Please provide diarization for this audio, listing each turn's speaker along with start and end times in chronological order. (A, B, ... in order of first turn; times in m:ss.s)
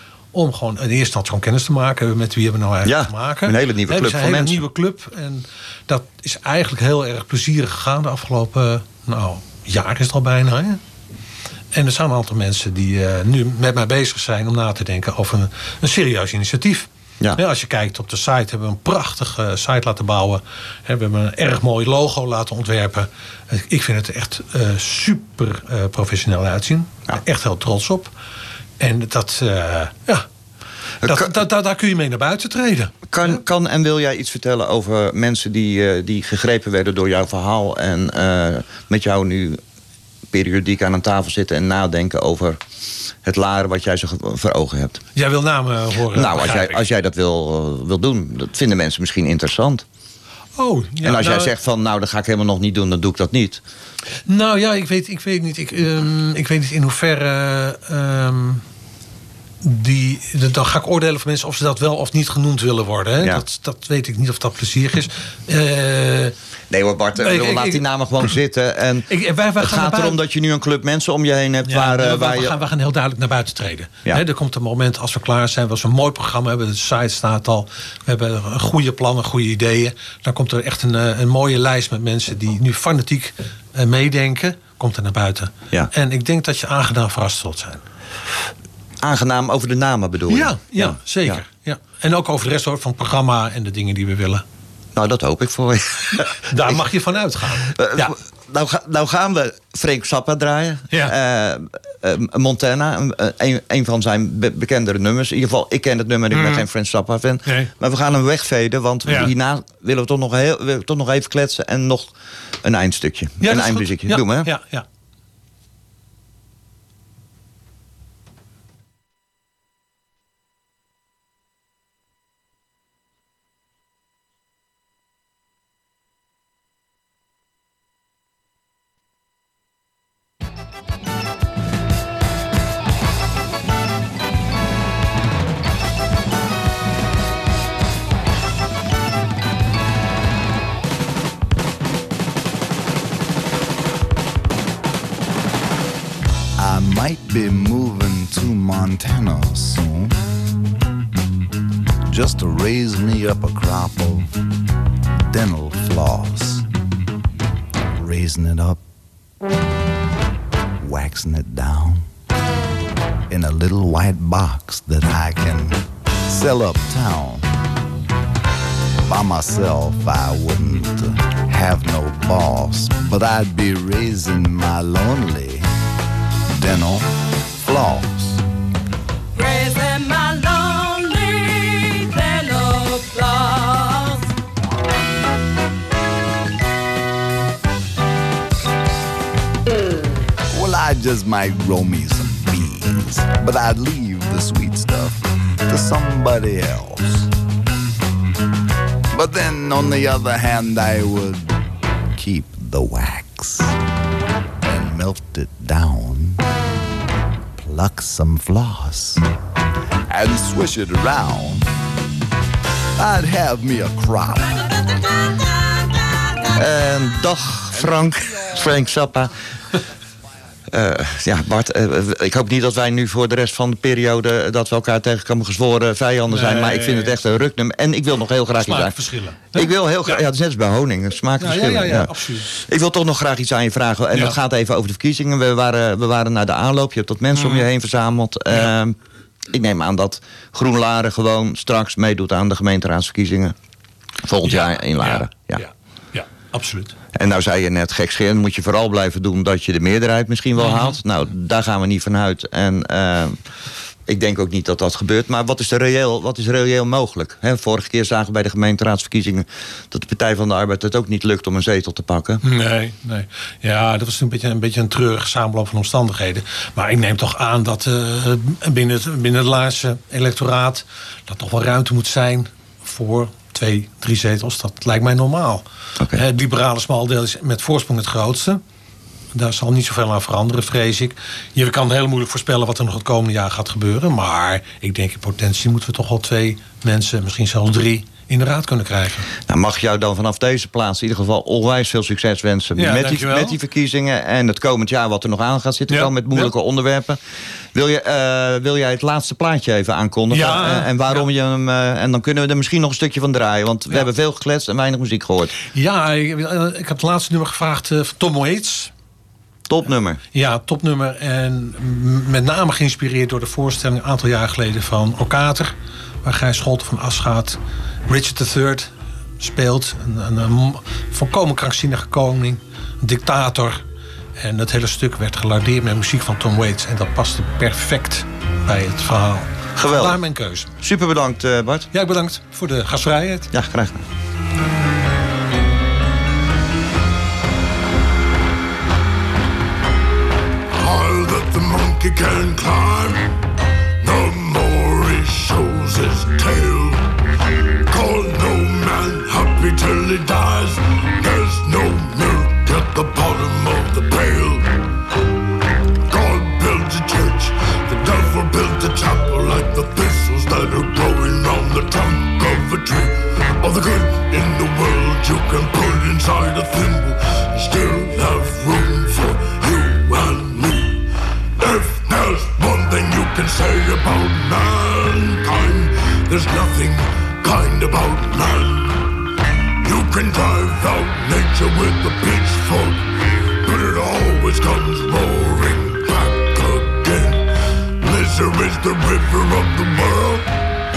0:00.3-0:10.8 A
0:02.8-0:04.6 B
0:11.7-0:28.1 A
0:28.8-0:30.3 A
0:31.0-0:31.3 B
0:31.0-0:33.4 A
0:33.1-0:39.6 B
0:40.3-0:42.6 B
0:43.2-0:45.0 B
0:45.2-0:46.9 A
0:46.1-0:49.9 B
0:50.6-0:51.5 A
0:51.0-0:53.6 B
0:54.3-0:58.6 A
0:59.6-1:06.3 A
1:06.7-1:12.6 B
1:07.2-1:07.8 A
1:09.1-1:10.2 A
1:11.7-1:27.8 A
1:29.0-1:31.4 B
1:30.3-1:34.4 A
1:35.0-1:36.8 B
1:36.2-1:38.2 A
1:37.6-1:54.5 B
1:46.3-1:46.6 A
1:47.5-1:47.7 A
1:49.1-1:49.3 A
1:53.4-1:54.8 A
2:26.6-2:30.2 C
2:32.1-2:34.3 C
2:35.3-2:36.6 C
2:37.9-2:38.8 C
2:40.8-2:42.1 C
2:43.3-2:47.5 C
2:49.1-2:55.7 C
2:56.5-2:58.4 C
2:59.4-3:04.2 D
3:10.5-3:17.3 C
3:19.1-3:21.6 C
3:22.2-3:23.8 C
3:24.6-3:26.5 C
3:27.6-3:29.2 C
3:30.1-3:31.7 C
3:33.0-3:34.8 C
3:36.5-3:39.3 B
3:40.7-3:49.0 B
3:46.3-3:47.2 A
3:48.6-3:50.2 A
3:49.5-3:59.0 B
3:51.4-3:52.5 A
3:57.4-3:57.7 A
3:59.5-4:03.6 B
4:04.2-4:05.6 B
4:04.4-4:07.0 A
4:07.1-4:13.4 B
4:10.6-4:11.0 A
4:14.1-4:22.4 B
4:22.4-4:38.6 A
4:39.3-4:49.3 A
4:49.4-4:57.2 B
4:52.8-4:53.6 A
4:55.9-4:56.5 A
4:57.7-5:05.6 B
5:00.3-5:01.3 A
5:05.7-5:08.9 A
5:09.7-5:10.2 B
5:10.3-5:23.8 A
5:24.4-5:30.7 A
5:29.8-5:30.2 B
5:30.8-5:31.9 B
5:31.9-5:33.5 A
5:33.5-5:34.1 B
5:40.7-5:43.3 E
5:44.0-5:47.0 E
5:47.9-5:54.8 E
5:56.1-6:11.0 E
6:11.6-6:19.0 E
6:19.8-6:23.1 E
6:23.6-6:30.5 E